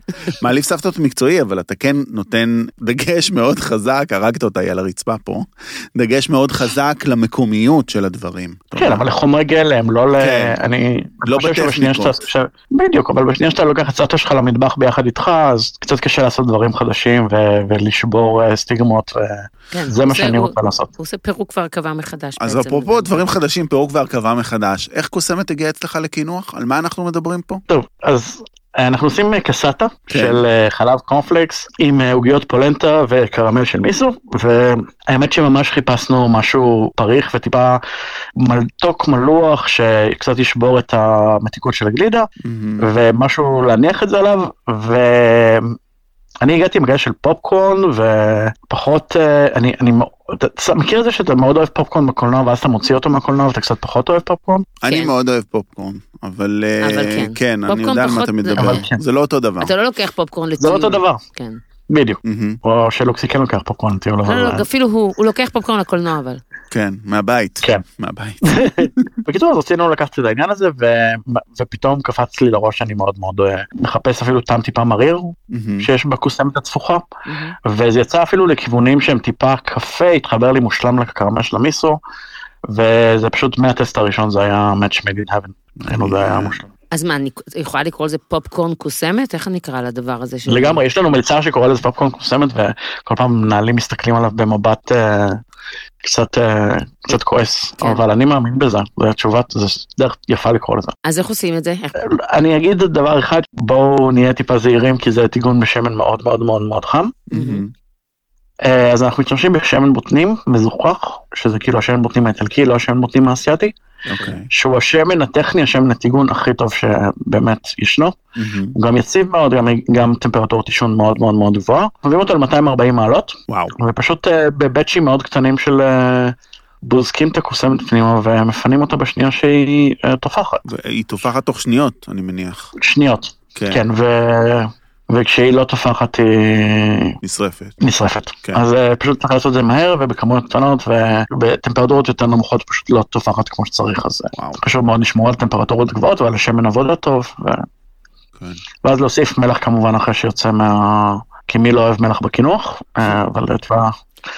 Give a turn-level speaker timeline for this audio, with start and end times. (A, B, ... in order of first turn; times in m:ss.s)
0:00.2-0:09.1 A
0:08.8-0:20.9 B
0:10.2-0:10.6 A
0:11.2-0:12.2 A
0:19.7-0:23.3 C
0:22.4-0:27.6 A
0:27.7-0:37.8 B
0:30.1-0:30.4 A
0:38.4-0:42.3 B
0:42.4-0:42.9 A
0:42.8-0:45.8 B
0:46.4-0:54.7 B
0:54.8-0:59.7 A
0:54.8-0:55.1 C
0:56.8-0:58.8 C
0:58.6-0:59.0 B
0:59.6-1:01.6 C
1:00.6-1:01.2 B
1:01.9-1:04.6 B
1:02.2-1:02.6 A
1:04.2-1:06.4 C
1:06.7-1:09.1 A
1:08.4-1:17.0 B
1:15.5-1:15.9 A
1:17.3-1:17.6 C
1:17.6-1:22.0 B
1:22.7-1:26.7 B
1:25.8-1:26.6 A
1:26.9-1:30.8 C
1:30.5-1:35.4 B
1:36.0-1:40.9 B
1:41.0-1:41.9 C
1:42.0-1:47.2 B
1:47.3-1:47.7 A
1:47.3-1:47.6 C
1:48.6-1:53.8 B
1:54.1-1:54.5 A
1:54.5-1:58.2 B
1:58.4-1:58.8 A
1:58.7-2:10.6 B
2:03.5-2:03.7 A
2:10.7-2:12.7 A
2:12.8-2:17.2 B
2:13.6-2:13.8 A
2:17.2-2:17.8 A
2:17.8-2:27.7 B
2:24.3-2:24.6 A
2:28.4-2:28.6 A
2:28.8-2:34.0 B